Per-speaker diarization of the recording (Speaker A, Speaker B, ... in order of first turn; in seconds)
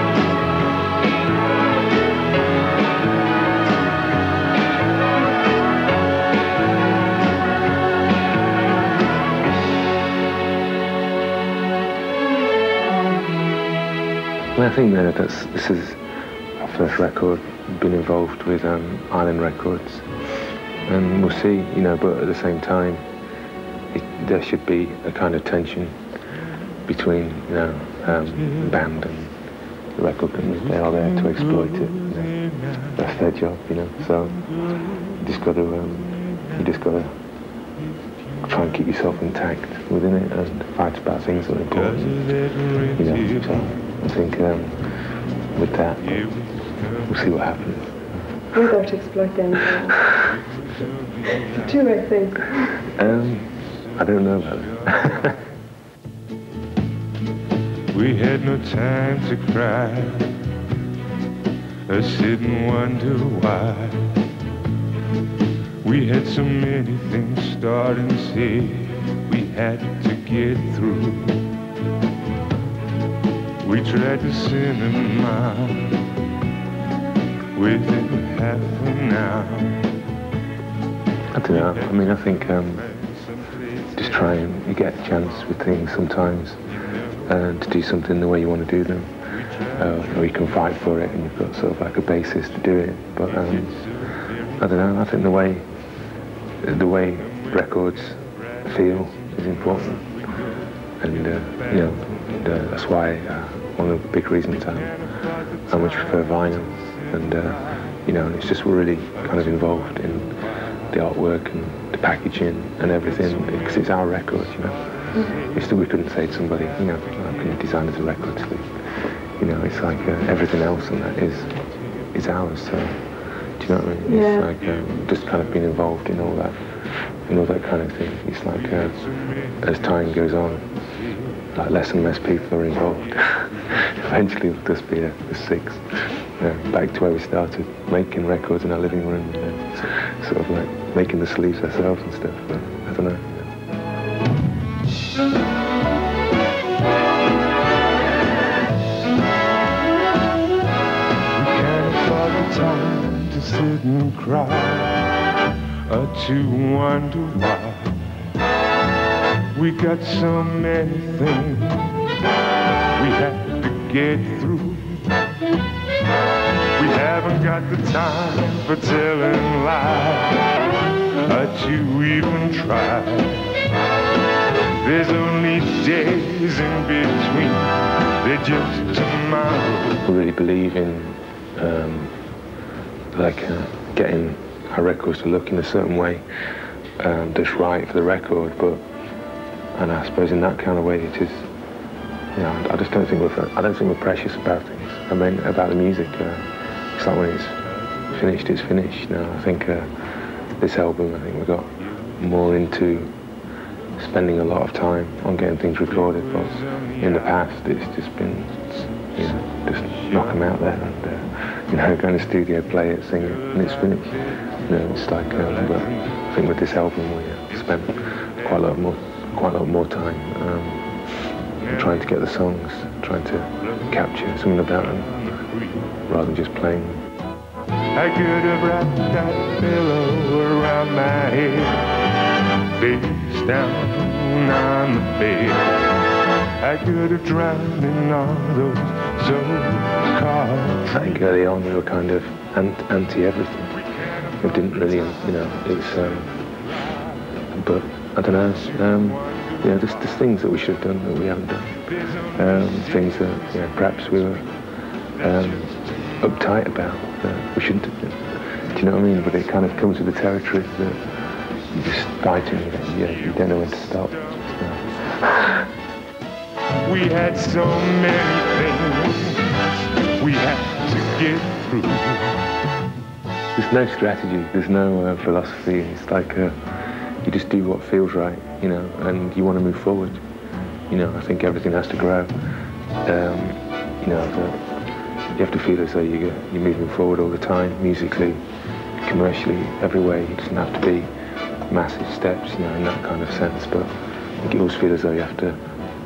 Speaker A: 14.6-16.0, 16.6-20.1, 20.9-23.1, 23.9-26.0, 26.9-29.3, 30.0-32.3, 33.0-34.5, 35.1-37.1, 38.4-42.3, 43.0-44.8, 45.5-46.2, 47.0-48.2, 52.8-55.4, 81.3-82.9, 84.0-86.6, 87.2-89.1, 89.7-93.8, 94.6-95.6, 96.6-100.1, 101.0-105.0, 105.7-110.3, 110.9-118.7, 119.4-121.5, 122.1-123.0, 123.6-126.6, 127.3-129.0, 129.6-130.8, 131.5-143.5, 180.0-182.1, 183.1-186.2, 187.0-188.8, 189.7-191.5, 192.3-199.9, 200.6-203.1, 204.0-220.9, 221.7-225.3, 226.1-227.0, 240.9-243.8, 244.4-246.3, 247.5-254.5, 255.2-261.1, 261.7-265.6, 273.6-276.5, 277.2-280.2, 280.9-282.3, 283.0-284.7, 285.3-288.4, 289.0-291.1, 291.7-295.6
Speaker B: 30.8-33.0, 34.4-35.1, 41.8-43.7, 46.1-47.1, 50.1-51.8, 53.2-55.3, 57.9-60.4, 61.9-64.2, 65.8-71.5, 73.6-76.1, 77.5-79.9, 81.5-84.4, 89.5-90.5, 93.4-94.6, 98.4-100.6, 105.2-107.1, 115.0-115.5, 128.7-130.1, 130.9-131.3, 151.3-155.2, 155.8-158.1, 159.5-162.1, 162.9-165.2, 166.7-170.5, 171.2-173.6, 174.7-180.0, 206.5-207.1, 215.4-216.0, 225.2-225.8, 227.9-232.1, 232.7-235.8, 236.6-241.2, 244.1-247.1, 248.9-249.6, 252.0-253.2, 266.8-272.4
Speaker C: 48.5-50.0, 51.6-52.7, 124.1-124.4